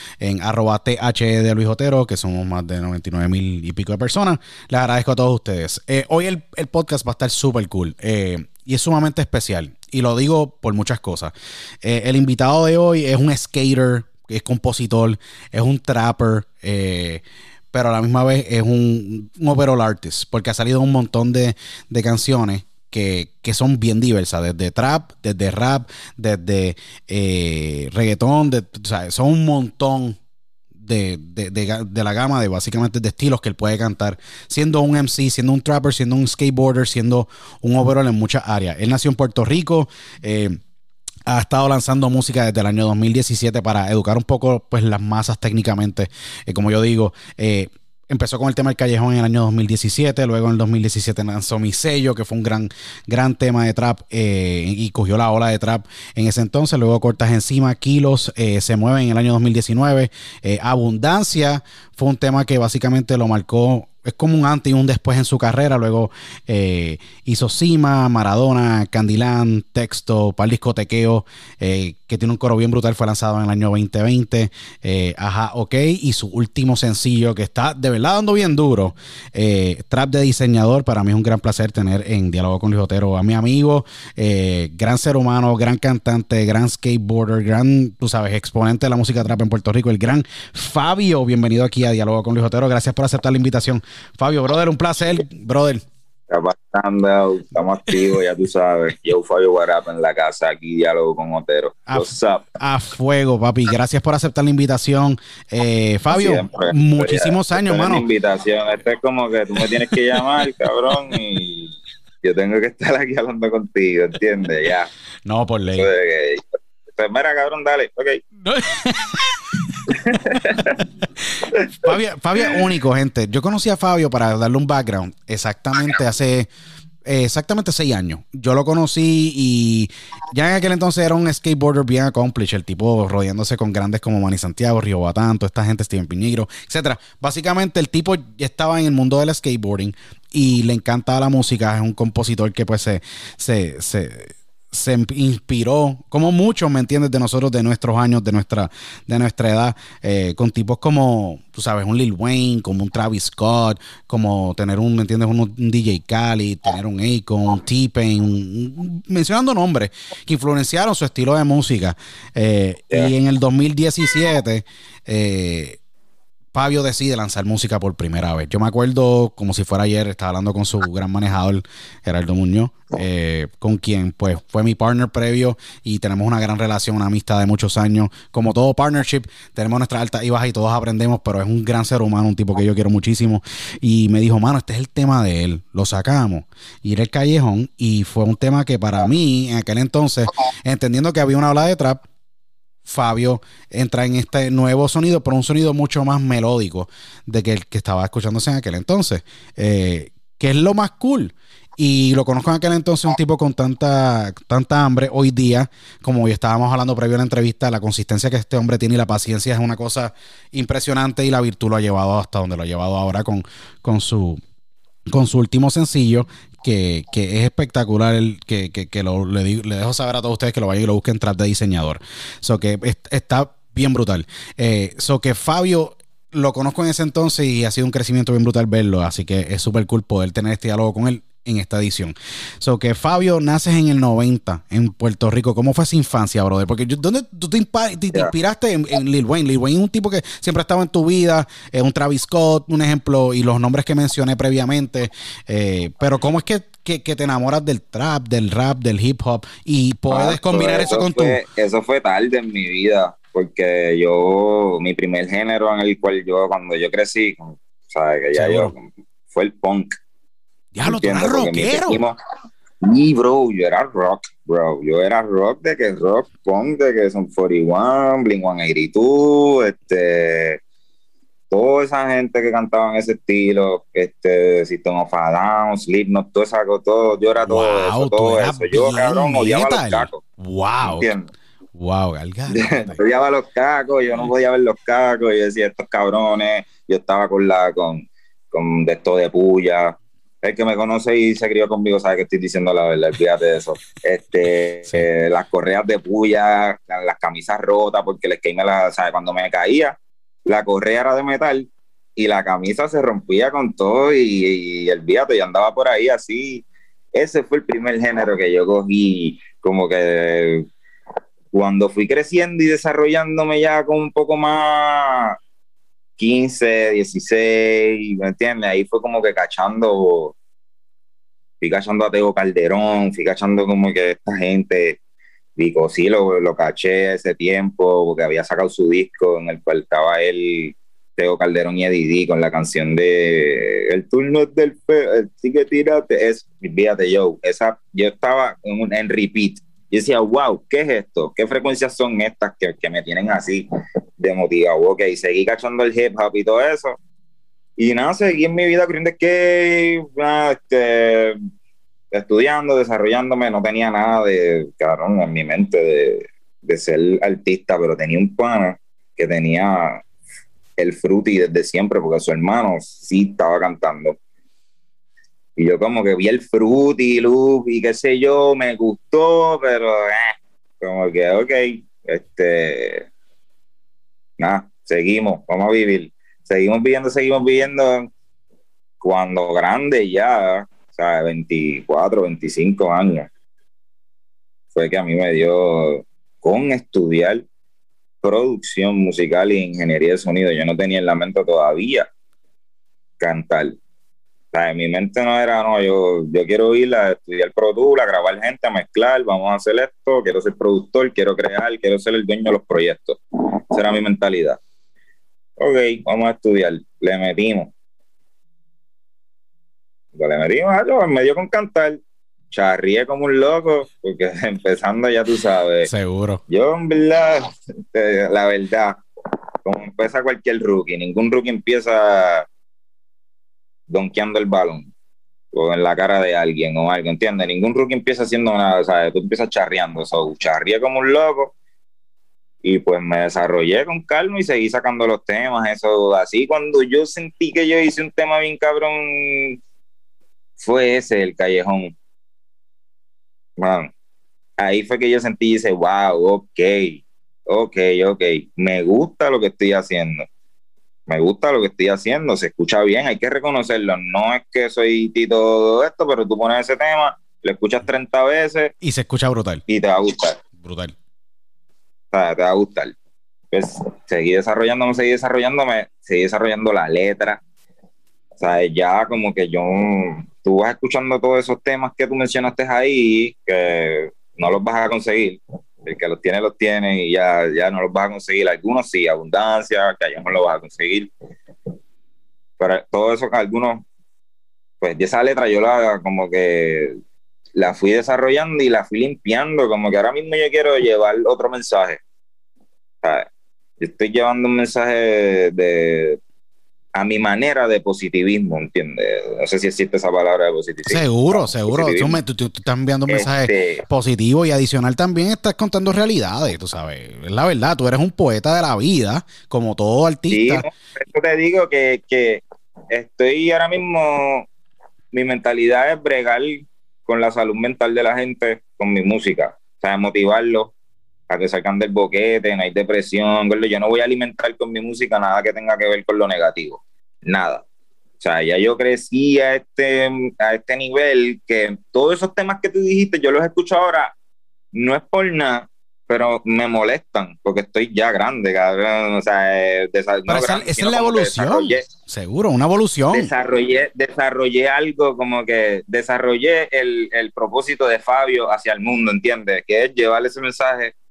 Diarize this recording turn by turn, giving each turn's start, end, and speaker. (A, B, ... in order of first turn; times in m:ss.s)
0:00.2-0:30.2 A
0:30.8-0:40.6 A
0:41.3-1:35.8 A
1:36.3-1:42.5 B
1:41.9-1:48.0 A
1:46.1-1:54.9 B
1:55.3-1:55.9 A
1:55.7-1:58.2 B
1:58.4-2:00.4 A
1:59.9-2:00.8 B
2:01.4-2:06.5 A
2:01.5-2:01.9 B
2:07.0-2:45.8 A
2:46.5-3:12.0 A
3:12.8-3:34.4 A
3:35.1-4:11.4 A
4:10.1-4:20.0 B
4:18.3-4:18.7 A
4:20.7-4:22.0 A
4:20.8-4:22.2 B
4:22.8-4:30.6 B
4:31.5-4:40.2 B
4:37.5-4:41.1 A
4:40.8-4:41.3 B
4:41.8-4:43.0 A
4:42.5-5:00.0 B
5:00.5-5:10.7 B
5:11.5-5:15.4 B
5:16.2-5:20.4 B
5:21.6-5:25.0 B
5:25.6-5:43.7 B
5:44.2-5:47.0 B
5:47.8-5:51.4 B
5:52.1-6:00.0 B
6:00.8-6:04.2 B
6:05.6-6:13.1 B
6:14.4-6:18.1 B
6:19.0-6:23.3 B
6:24.8-6:27.4 B
6:28.2-6:32.1 B
6:33.2-6:33.8 B
6:34.5-6:43.2 B
6:43.7-6:44.6 B
6:45.6-6:47.7 B
6:50.2-6:52.0 B
6:52.5-6:55.9 B
6:55.8-6:56.4 A
6:56.5-6:59.0 B
6:59.6-7:02.5 B
7:03.9-7:04.9 B
7:05.5-7:11.5 B
7:12.6-7:19.6 B
7:20.6-7:21.9 B
7:23.6-7:23.9 B
7:24.6-7:30.3 B
7:31.1-7:38.7 B
7:38.8-7:39.6 A
7:39.7-7:40.4 B
7:40.6-7:40.9 A
7:42.1-7:42.9 B
7:43.5-7:47.4 B
7:48.4-8:01.1 B
8:02.6-8:03.8 B
8:04.8-8:07.0 B
8:07.6-8:12.0 B
8:13.0-8:13.3 B
8:13.8-8:16.2 B
8:17.0-8:22.2 B
8:20.9-8:30.6 A
8:23.1-8:23.8 B
8:30.3-8:34.5 B
8:35.1-8:40.7 B
8:41.3-8:47.6 B
8:48.2-8:54.1 B
8:54.7-9:01.9 B
9:00.3-9:03.3 A
9:03.1-9:10.9 B